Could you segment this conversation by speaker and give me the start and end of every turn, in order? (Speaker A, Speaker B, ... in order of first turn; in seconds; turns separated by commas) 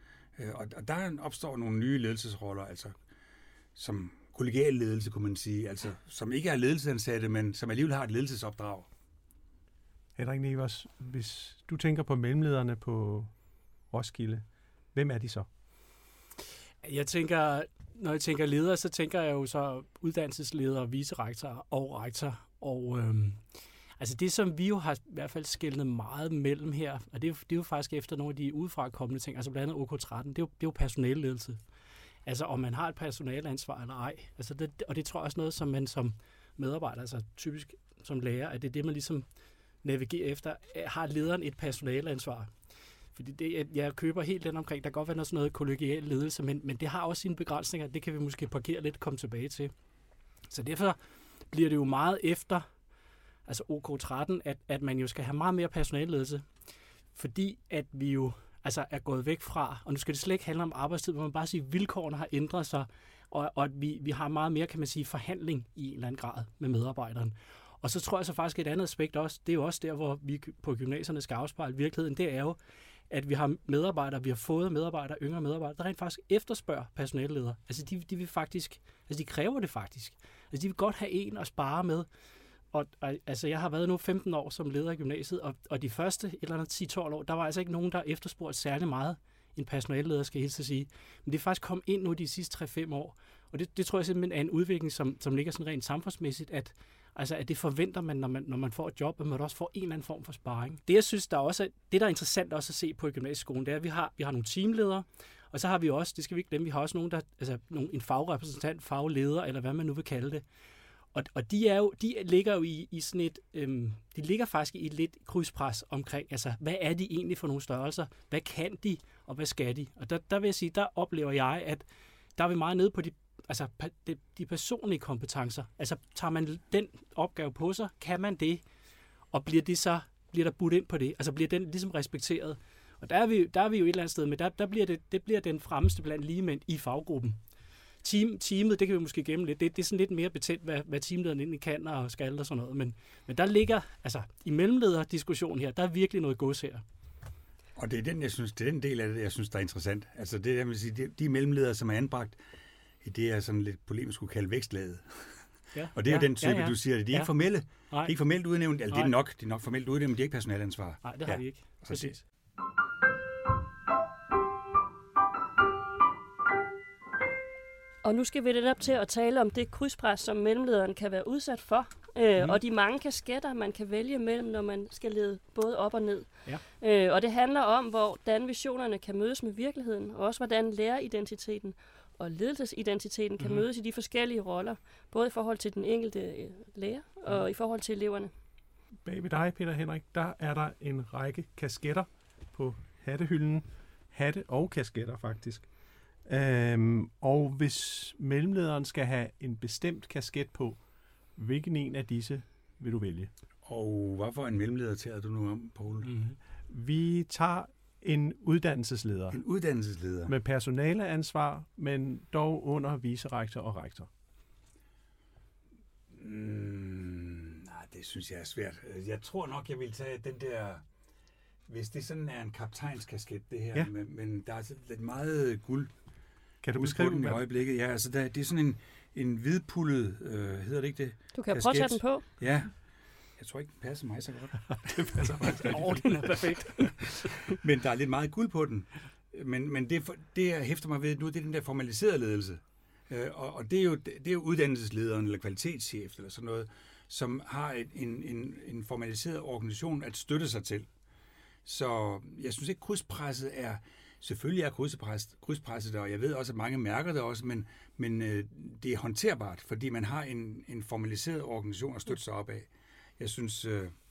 Speaker A: 0.4-2.9, Speaker A: 3.8-8.9, Speaker B: 10.2-13.3, Speaker B: 13.9-15.5, Speaker C: 16.8-23.5, Speaker C: 24.0-31.6, Speaker C: 32.2-39.2, Speaker C: 39.8-42.5, Speaker C: 43.1-49.7, Speaker C: 50.5-51.0, Speaker C: 51.5-52.6, Speaker C: 53.5-56.5, Speaker C: 57.1-72.6, Speaker C: 73.1-82.1, Speaker C: 82.7-110.4, Speaker C: 111.1-121.8, Speaker C: 122.3-128.6, Speaker C: 129.3-137.4, Speaker C: 138.0-146.8, Speaker A: 147.8-152.4, Speaker A: 153.0-155.4, Speaker C: 155.7-157.3, Speaker A: 155.9-162.2, Speaker C: 157.9-158.1, Speaker C: 158.9-159.1, Speaker C: 161.0-162.2, Speaker D: 168.0-188.3, Speaker C: 183.4-183.6, Speaker B: 189.0-195.7, Speaker B: 196.3-200.8, Speaker B: 201.3-203.3, Speaker A: 203.6-206.1, Speaker C: 206.1-206.3, Speaker B: 206.7-209.4, Speaker A: 209.3-210.3, Speaker B: 210.2-214.1, Speaker A: 216.1-220.8, Speaker A: 221.7-225.9, Speaker B: 226.6-227.4, Speaker A: 226.7-232.8, Speaker D: 231.3-232.2, Speaker A: 233.4-236.1, Speaker B: 235.0-235.9, Speaker C: 235.6-237.4, Speaker A: 237.6-250.9, Speaker A: 251.6-263.9